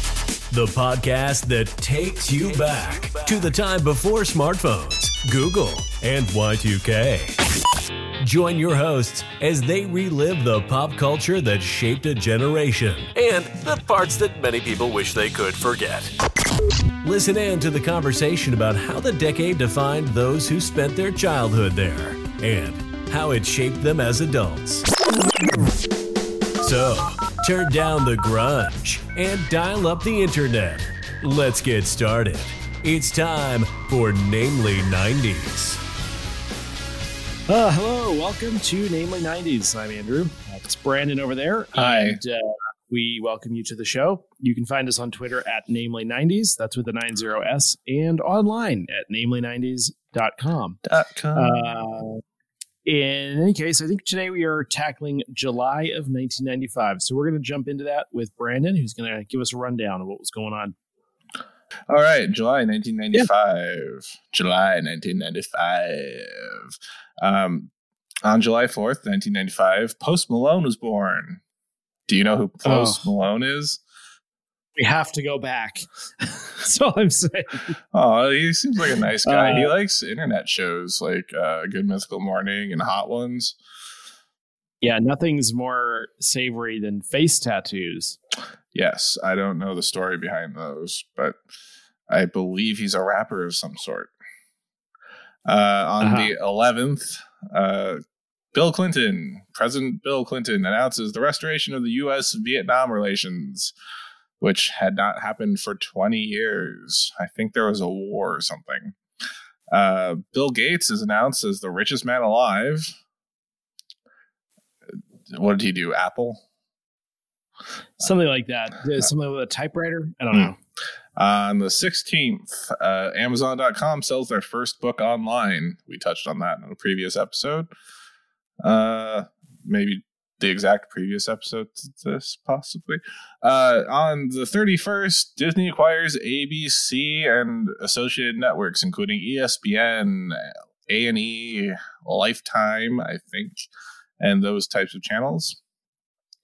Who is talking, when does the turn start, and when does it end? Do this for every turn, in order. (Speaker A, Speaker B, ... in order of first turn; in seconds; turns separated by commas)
Speaker A: 0.5-7.3, Speaker A: 8.2-16.1, Speaker A: 17.0-24.8, Speaker A: 26.6-35.8, Speaker B: 37.5-50.8, Speaker C: 41.7-42.2, Speaker C: 50.8-51.8, Speaker B: 51.3-52.2, Speaker B: 52.8-60.7, Speaker C: 61.9-67.7, Speaker C: 68.2-71.4, Speaker C: 72.1-73.8, Speaker B: 72.6-73.0, Speaker B: 74.8-77.7, Speaker C: 77.9-83.5, Speaker B: 79.2-79.7, Speaker B: 84.8-88.2, Speaker C: 88.7-91.4, Speaker C: 92.1-94.1, Speaker C: 95.5-98.0, Speaker B: 96.0-96.3, Speaker C: 98.5-103.7, Speaker C: 104.4-109.0, Speaker C: 109.7-113.0, Speaker C: 115.3-116.4, Speaker B: 118.0-120.6, Speaker C: 121.2-127.7, Speaker C: 128.6-143.7, Speaker C: 144.2-145.6